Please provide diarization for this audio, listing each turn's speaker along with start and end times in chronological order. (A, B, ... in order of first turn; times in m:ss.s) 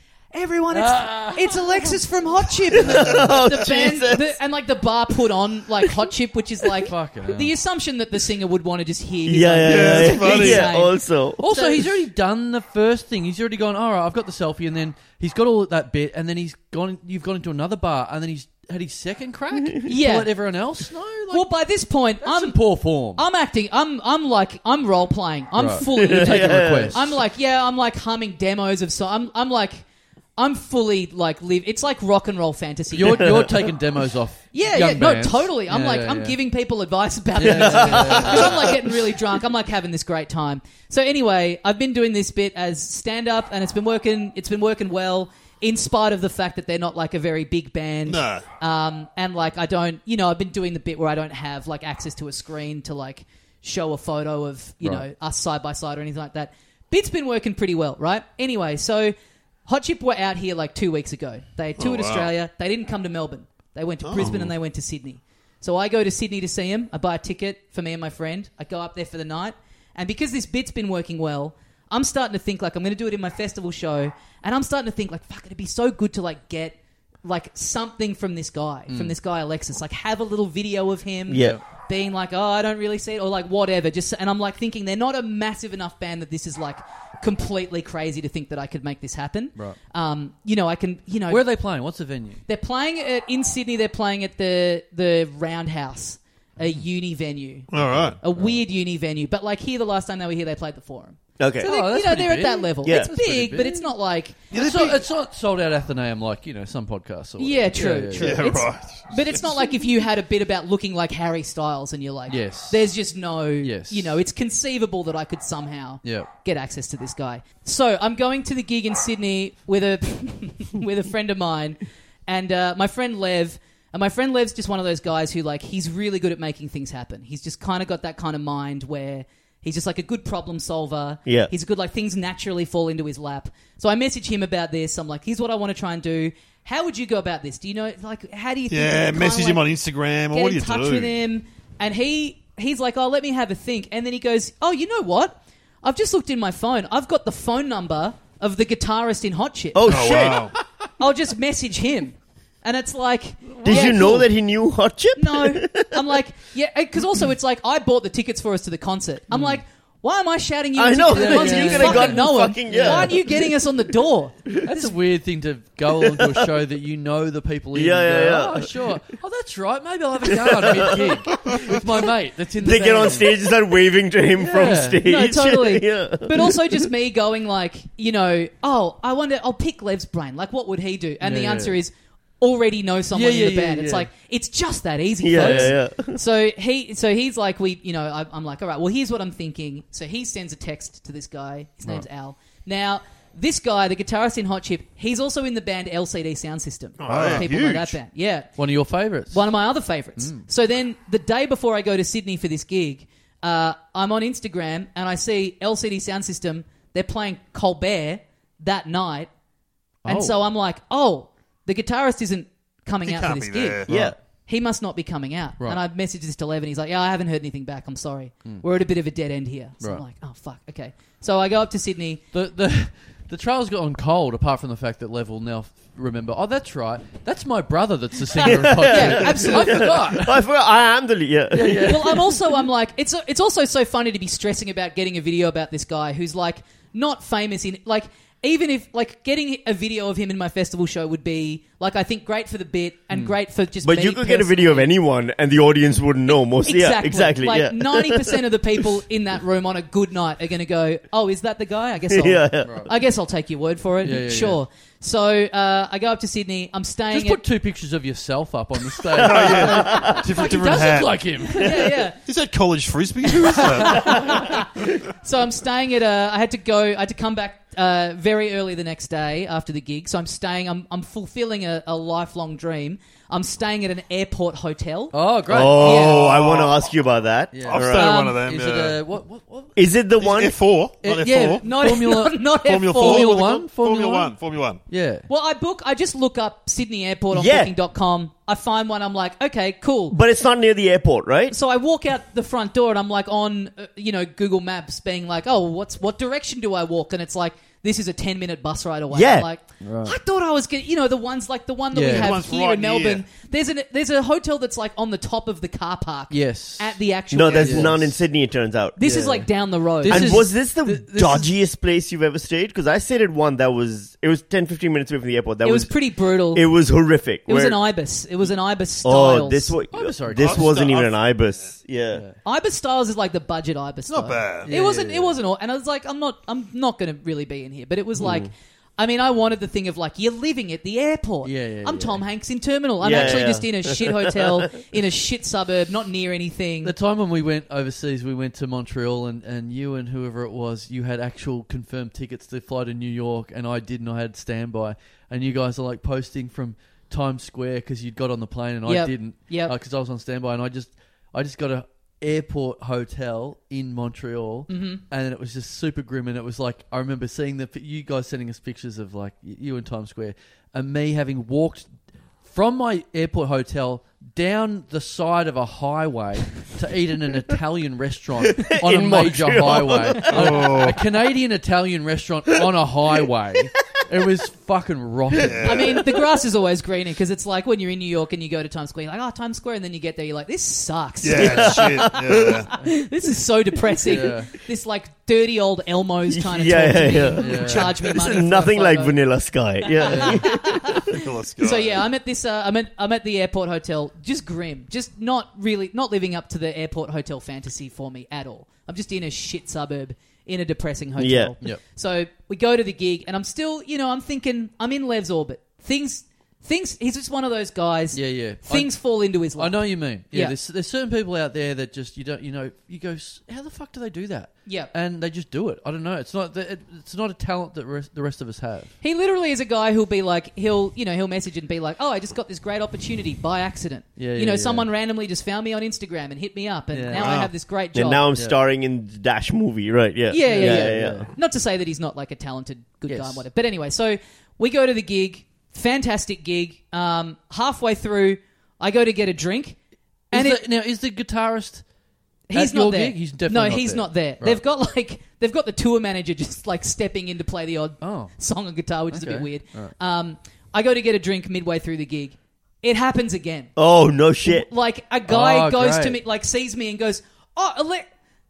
0:00.3-0:11.8 A
0:00.7-0:02.0 B
0:02.7-0:03.4 B
0:02.7-0:04.4 C
0:06.8-0:07.5 B
0:09.3-0:11.4 C
0:09.6-0:10.7 D
0:11.4-0:21.5 B
0:19.6-0:19.8 C
0:19.8-0:20.3 A
0:21.3-0:29.8 A
0:22.2-0:23.2 B
0:25.6-0:27.2 B
0:25.9-0:27.0 C
0:30.4-0:33.6 A
0:32.9-0:36.4 B
0:33.1-0:33.5 C
0:34.5-0:59.1 A
0:37.4-0:38.8 B
0:37.6-0:38.4 C
0:48.1-0:48.4 D
0:59.7-1:31.4 A
1:01.8-1:02.3 D
1:04.0-1:04.5 D
1:18.9-1:19.2 B
1:21.3-1:21.6 C
1:21.4-1:21.6 B
1:31.3-1:32.4 B
1:32.5-1:37.7 A
1:37.7-1:38.2 D
1:37.8-1:38.6 B
1:38.2-1:45.0 A
1:41.4-1:41.7 C
1:41.6-1:43.9 B
1:42.8-1:43.1 C
1:44.5-1:48.6 B
1:44.5-1:45.0 D
1:47.4-2:19.6 A
1:48.2-1:49.6 D
1:52.3-1:52.9 B
1:53.6-1:54.2 B
1:56.0-1:56.3 B
2:11.3-2:11.5 C
2:18.7-2:21.1 D
2:20.3-2:30.3 A
2:29.7-2:30.5 C
2:29.9-2:30.6 D
2:31.0-2:34.3 A
2:33.6-2:34.2 B
2:33.6-2:36.0 C
2:35.2-2:44.9 A
2:39.3-2:39.6 B
2:40.8-2:43.3 C
2:41.0-2:43.2 B
2:44.6-2:53.4 B
2:46.0-2:46.5 C
2:47.7-2:48.8 C
2:50.3-2:51.8 C
2:52.6-2:56.6 C
2:54.4-2:55.1 B
2:55.0-3:18.5 A
3:01.2-3:01.8 B
3:03.1-3:04.1 B
3:05.2-3:06.2 C
3:05.4-3:05.8 B
3:17.0-3:18.0 D
3:17.1-3:17.5 B
3:18.6-3:19.4 B
3:19.3-3:29.3 A
3:20.2-3:20.4 B
3:30.0-3:30.4 B
3:30.1-3:33.9 A
3:33.1-3:34.0 D
3:33.9-3:34.2 B
3:33.9-3:34.2 C
3:34.5-3:42.2 A
3:42.3-3:50.5 B
3:48.4-3:52.1 C
3:48.4-3:50.0 A
3:51.5-3:52.4 B
3:51.8-4:04.9 A
4:03.8-4:08.4 C
4:06.6-4:17.4 A
4:12.1-4:12.8 C
4:12.6-4:12.9 B
4:14.0-4:14.6 B
4:17.1-4:22.0 B
4:19.1-4:20.2 C
4:19.2-4:21.2 D
4:21.6-4:22.2 A
4:22.2-4:24.6 D
4:23.6-4:24.4 B
4:23.8-4:35.2 A
4:35.1-4:36.1 B
4:35.5-4:38.1 C
4:35.7-4:36.9 D
4:35.8-4:36.3 A
4:37.5-4:39.8 B
4:37.6-4:39.0 D
4:38.0-4:38.4 A
4:39.8-4:40.6 C
4:40.2-4:41.6 D
4:41.0-4:44.3 B
4:41.6-4:43.3 A
4:42.6-4:44.8 D
4:44.9-4:45.3 B
4:45.3-4:50.2 A
4:47.3-4:47.7 C
4:50.1-4:51.6 C
4:51.5-5:08.1 A
4:59.1-4:59.5 C
4:59.8-5:00.2 B
5:01.9-5:02.4 B
5:02.1-5:03.2 D
5:06.3-5:07.0 B
5:07.3-5:09.0 C
5:07.5-5:08.1 B
5:09.0-5:10.5 A
5:09.0-5:09.5 B
5:10.0-5:11.5 B
5:10.1-5:17.8 C
5:15.6-5:16.7 A
5:17.5-5:19.8 A
5:19.0-5:22.3 C
5:19.9-5:20.9 B
5:20.4-5:21.2 D
5:22.4-5:36.9 A
5:24.1-5:24.7 D
5:24.6-5:25.4 B
5:28.2-5:28.5 C
5:31.4-5:32.2 B
5:33.0-5:34.7 C
5:33.1-5:33.5 B
5:36.8-6:01.9 B
5:48.9-5:49.7 A
5:54.7-5:55.0 A
6:02.4-6:16.0 B
6:08.5-6:10.7 C
6:10.3-6:11.0 D
6:15.4-6:16.0 D
6:15.6-6:29.2 A
6:21.2-6:22.7 D
6:21.3-6:22.7 C
6:24.0-6:24.5 B
6:26.3-6:31.0 C
6:27.4-6:28.0 B
6:29.9-6:50.6 A
6:30.0-6:30.4 B
6:31.0-6:32.1 D
6:41.2-6:41.5 C
6:48.1-6:49.0 B
6:49.6-6:58.9 B
6:54.7-6:54.9 A
6:59.0-7:08.2 A
7:04.2-7:04.9 B
7:06.9-7:07.3 B
7:07.1-7:07.5 D
7:07.9-7:11.3 C
7:10.3-7:19.8 A
7:10.5-7:11.3 B
7:13.1-7:13.4 B
7:20.3-7:20.6 A
7:20.3-7:21.8 B
7:22.5-7:33.7 A
7:22.5-7:24.6 B
7:28.0-7:28.3 B
7:29.1-7:29.9 B
7:33.8-7:34.7 C
7:34.4-7:38.1 A
7:35.3-7:36.2 B